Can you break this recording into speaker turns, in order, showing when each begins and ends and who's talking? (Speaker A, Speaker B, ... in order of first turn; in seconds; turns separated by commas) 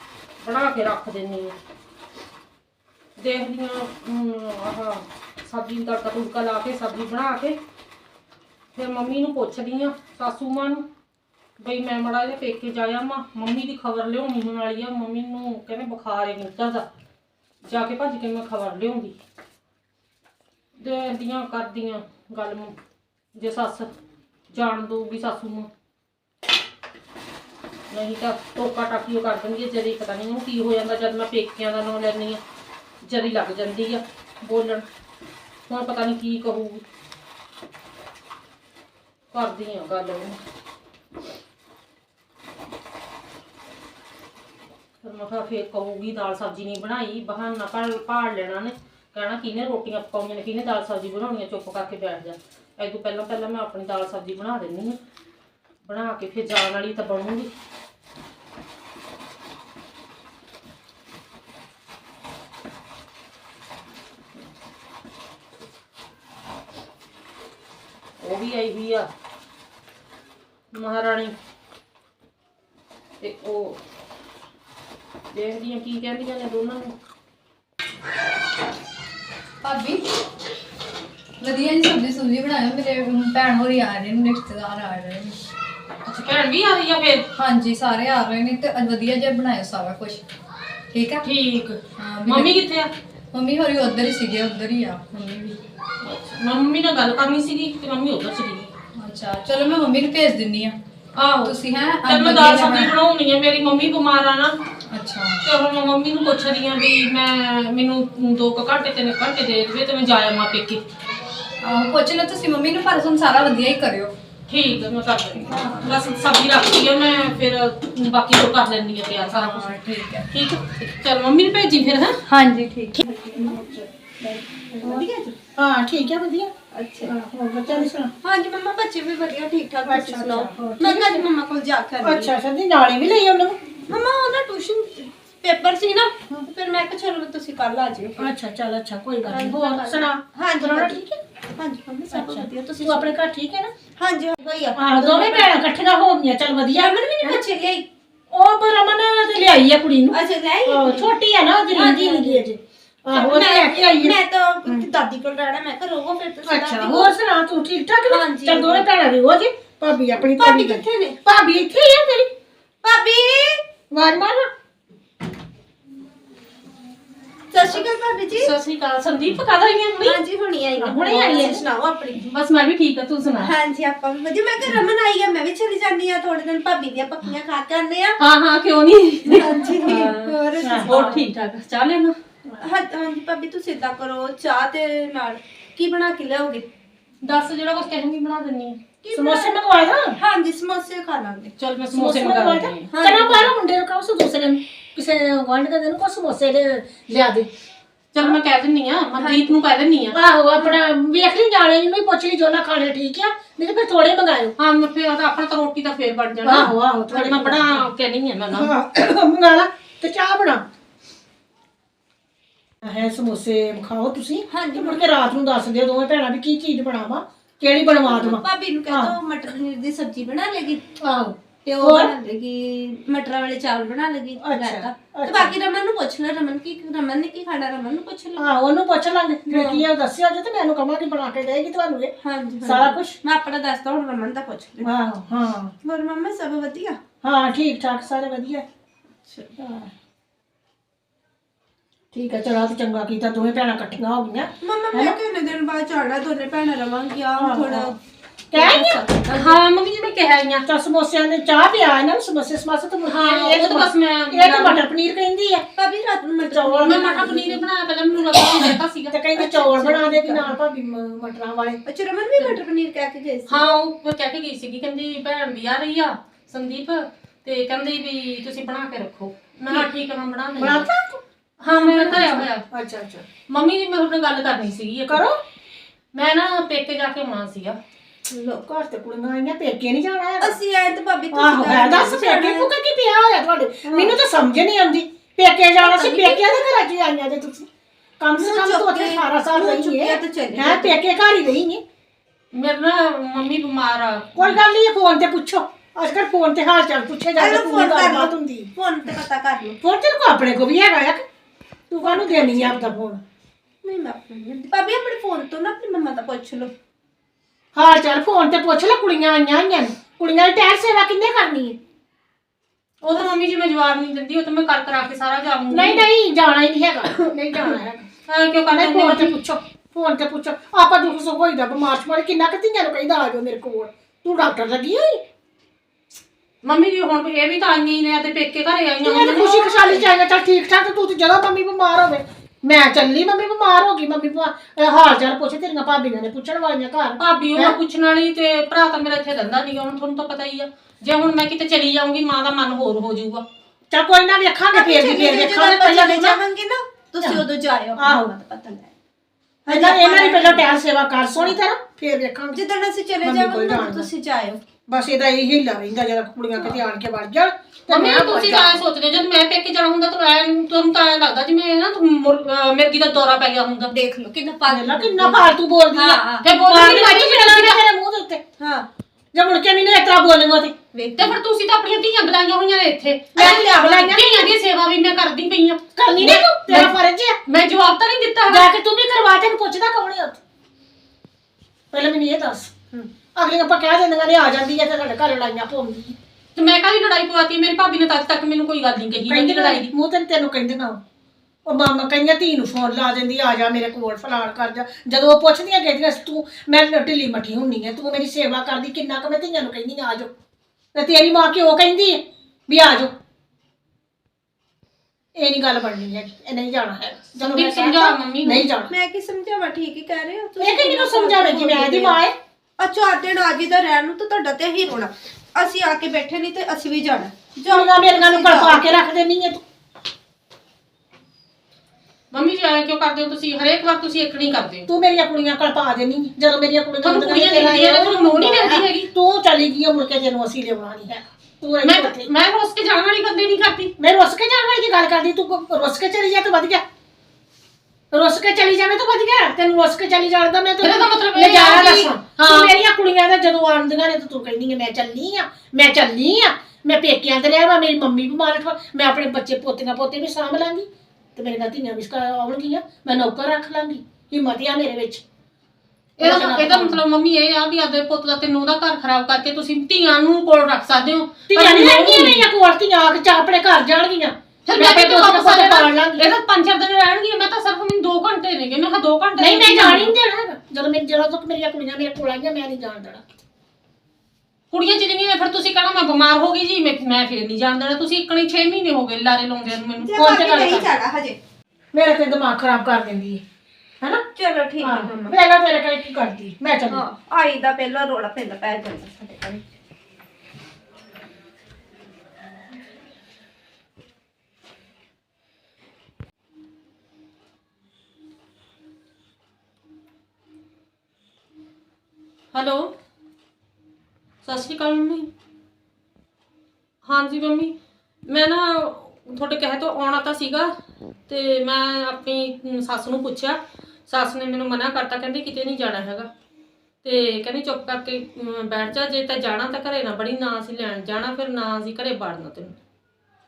Speaker A: 0.4-1.5, Speaker A: 3.2-7.5, Speaker A: 8.7-10.8, Speaker A: 11.6-16.9, Speaker A: 17.6-19.1, Speaker A: 20.8-22.7, Speaker A: 23.4-23.9, Speaker A: 24.5-25.7, Speaker A: 27.9-32.4, Speaker A: 33.0-34.8, Speaker A: 35.7-36.8, Speaker A: 39.3-40.4, Speaker A: 45.0-55.0, Speaker A: 55.9-57.5, Speaker A: 68.2-69.1, Speaker A: 70.7-71.3, Speaker A: 73.2-73.8, Speaker A: 75.3-76.9, Speaker B: 79.6-80.0, Speaker B: 81.4-85.4, Speaker A: 86.0-87.3, Speaker B: 87.3-90.2, Speaker B: 90.9-91.2, Speaker A: 91.2-92.9, Speaker B: 92.0-92.5, Speaker B: 93.3-95.6, Speaker A: 96.0-98.7, Speaker B: 98.9-100.8, Speaker A: 101.1-104.6, Speaker B: 101.4-102.9, Speaker B: 104.9-105.4, Speaker A: 105.4-110.8, Speaker B: 111.6-114.1, Speaker A: 114.5-119.7, Speaker B: 119.3-120.3, Speaker A: 120.3-122.2, Speaker B: 122.3-123.0, Speaker C: 123.0-125.3, Speaker D: 123.4-123.8, Speaker D: 124.8-126.5, Speaker C: 126.7-127.1, Speaker D: 127.1-128.1, Speaker C: 127.7-132.3, Speaker D: 129.8-131.2, Speaker D: 132.0-133.6, Speaker C: 133.9-138.3, Speaker D: 138.2-141.2, Speaker C: 139.2-141.0, Speaker C: 141.6-143.1, Speaker D: 142.1-143.7, Speaker C: 144.0-145.6, Speaker D: 144.8-147.4, Speaker C: 146.7-147.9, Speaker D: 148.3-154.8, Speaker C: 150.1-151.2, Speaker C: 151.7-152.4, Speaker C: 153.1-157.1, Speaker D: 156.4-162.3, Speaker C: 158.1-158.9, Speaker C: 160.3-161.2, Speaker C: 162.8-163.7, Speaker D: 163.9-164.5, Speaker C: 167.5-168.5, Speaker A: 168.3-170.2, Speaker C: 170.0-172.2, Speaker D: 170.8-171.6, Speaker A: 172.2-173.5, Speaker C: 173.4-178.2, Speaker A: 178.2-182.2, Speaker C: 179.2-181.2, Speaker D: 180.6-181.2, Speaker C: 182.6-186.7, Speaker A: 187.2-188.8, Speaker C: 189.0-189.5, Speaker D: 189.1-190.2, Speaker C: 190.2-191.5, Speaker A: 191.6-192.9, Speaker D: 191.9-197.5, Speaker C: 192.9-193.5, Speaker A: 198.1-200.2, Speaker C: 199.2-199.5, Speaker D: 200.1-204.5, Speaker A: 204.6-208.7, Speaker D: 206.4-207.8, Speaker D: 208.5-210.6, Speaker D: 212.8-219.1, Speaker C: 214.5-215.1, Speaker C: 217.8-220.8, Speaker D: 221.0-222.1, Speaker C: 221.6-228.4, Speaker D: 224.4-225.5, Speaker D: 228.3-232.1, Speaker C: 229.5-229.8, Speaker C: 232.2-234.9, Speaker D: 232.6-233.2, Speaker D: 234.8-235.7, Speaker C: 235.8-237.0, Speaker D: 237.2-238.6, Speaker C: 239.2-239.5, Speaker D: 239.6-239.9, Speaker D: 242.1-245.2, Speaker C: 244.6-248.0, Speaker D: 247.4-247.9, Speaker D: 248.5-249.0, Speaker C: 248.5-249.6, Speaker A: 249.3-250.6, Speaker D: 250.7-255.6, Speaker A: 253.1-254.8, Speaker C: 255.8-257.6, Speaker D: 256.5-257.0, Speaker A: 256.8-259.2, Speaker D: 259.1-261.8, Speaker C: 259.3-260.5, Speaker C: 261.9-263.6, Speaker A: 263.5-270.8, Speaker C: 270.6-270.9, Speaker D: 270.6-271.1, Speaker A: 271.6-272.6, Speaker D: 271.7-273.2, Speaker A: 273.5-275.2, Speaker D: 275.1-275.4, Speaker A: 276.1-277.8, Speaker C: 278.3-278.6, Speaker D: 278.6-280.6, Speaker C: 280.4-282.7, Speaker D: 281.3-287.6, Speaker C: 283.9-284.2, Speaker C: 285.8-286.8, Speaker D: 288.2-291.8, Speaker C: 288.4-290.9, Speaker A: 292.5-294.6, Speaker D: 294.4-298.7, Speaker C: 297.4-299.8, Speaker D: 299.8-301.2, Speaker D: 301.9-303.2, Speaker C: 302.1-302.8, Speaker C: 303.8-306.7, Speaker D: 307.7-311.8, Speaker A: 313.0-316.0, Speaker D: 315.7-318.1, Speaker A: 317.6-319.4, Speaker D: 318.7-325.2, Speaker A: 326.6-330.1, Speaker D: 329.0-337.8, Speaker A: 337.2-343.4, Speaker D: 343.9-346.4, Speaker C: 344.7-348.9, Speaker D: 348.0-348.3, Speaker C: 349.6-350.7, Speaker D: 349.7-352.6, Speaker C: 352.5-354.6, Speaker D: 353.2-354.1, Speaker D: 354.9-358.8, Speaker A: 357.9-363.9, Speaker C: 363.9-366.4, Speaker D: 364.7-368.4, Speaker A: 366.4-367.8, Speaker C: 368.6-368.9, Speaker D: 369.3-370.7, Speaker C: 370.9-371.4, Speaker A: 371.2-376.9, Speaker D: 373.4-374.5, Speaker D: 375.9-377.4, Speaker A: 377.5-378.7, Speaker D: 378.5-380.4, Speaker D: 381.9-386.1, Speaker A: 386.5-389.9, Speaker D: 389.3-391.0, Speaker D: 391.6-400.3, Speaker D: 400.9-403.1, Speaker D: 405.3-408.9, Speaker A: 407.4-408.7, Speaker C: 408.9-412.2, Speaker D: 410.6-412.4, Speaker C: 412.8-418.9, Speaker D: 417.7-419.6, Speaker A: 422.3-424.9, Speaker D: 424.9-432.3, Speaker A: 427.0-429.1, Speaker A: 431.8-433.9, Speaker D: 434.0-436.8, Speaker D: 438.1-455.2, Speaker A: 440.8-442.7, Speaker D: 456.2-457.0, Speaker A: 456.2-462.4, Speaker D: 461.5-466.2, Speaker A: 464.6-470.1, Speaker D: 469.4-473.2, Speaker A: 474.7-480.9, Speaker C: 480.0-481.4, Speaker D: 480.1-480.9, Speaker D: 481.9-483.4, Speaker C: 484.3-485.4, Speaker D: 484.8-487.0, Speaker C: 486.9-489.7, Speaker A: 502.5-502.9, Speaker A: 504.4-505.3, Speaker A: 507.0-507.7, Speaker A: 508.3-510.7, Speaker A: 511.3-516.3, Speaker A: 517.0-522.8